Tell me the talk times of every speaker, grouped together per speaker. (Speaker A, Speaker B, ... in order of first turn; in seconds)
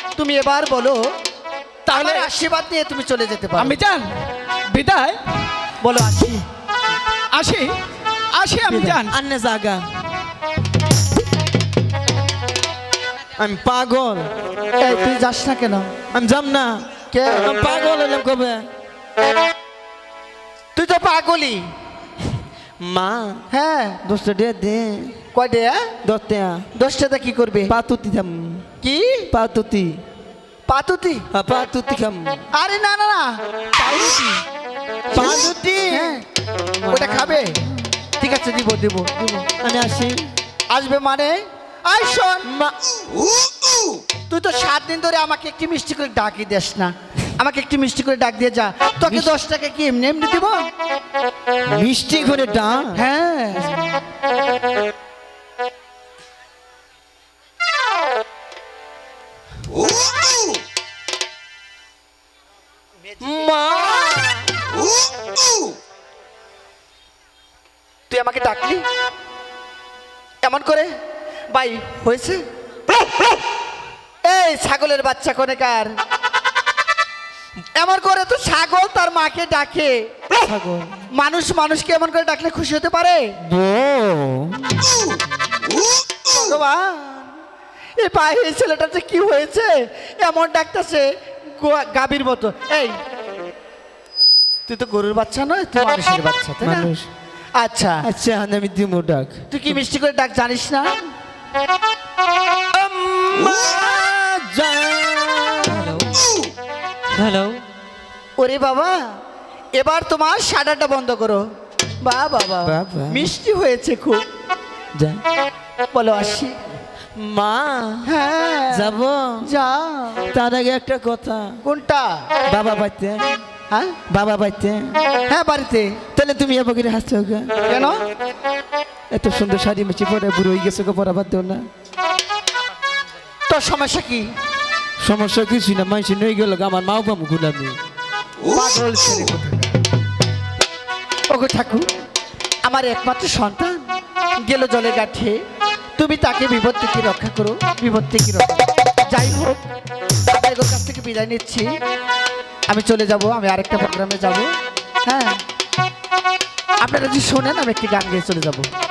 Speaker A: 0.2-1.0, 1.9-3.8, 5.8-6.4, 14.8-15.9, 17.1-17.5, 20.8-21.6, 23.5-24.0, 25.3-25.9, 26.7-27.7, 28.8-29.3, 30.7-31.2, 32.5-33.4, 35.1-36.2, 36.9-37.6, 38.2-39.5, 40.7-42.5, 44.3-50.6, 52.9-53.7, 68.1-68.8, 70.4-70.9, 71.5-72.4, 74.2-75.9, 77.8-80.1, 81.1-83.2, 86.2-87.4, 88.0-91.0, 91.6-92.9, 94.7-96.9, 97.6-98.0, 99.5-100.9, 108.4-109.1, 109.8-111.5, 112.0-114.2, 115.9-116.8, 118.0-120.2, 121.6-122.3, 123.7-124.0, 125.3-126.0, 127.6-128.0, 133.5-134.3, 138.4-139.8, 141.3-141.9, 142.7-143.9, 144.4-145.4, 146.0-149.6, 150.3-151.7, 152.7-154.5, 155.1-155.4, 156.8-158.7
Speaker B: 1.9-2.3, 3.6-4.1, 4.7-5.2, 7.3-7.7, 8.3-9.2, 33.8-34.4
Speaker C: 8.7-10.1, 13.3-14.3, 16.1-18.7, 22.8-23.4, 24.0-25.2, 26.0-26.7, 27.7-28.7, 29.3-30.0, 31.3-32.4, 35.1-36.2, 36.8-37.6, 39.6-40.3, 42.4-42.7, 49.1-49.3, 51.7-53.0, 63.2-64.6, 80.4-81.0, 83.4-85.1, 96.6-97.1, 98.0-99.8, 102.7-106.2, 107.1-107.6, 112.6-113.3, 115.0-115.2, 117.2-118.1, 118.7-119.5, 120.3-121.6, 122.5-123.4, 124.1-125.0, 126.1-127.7, 129.1-131.7, 135.0-137.8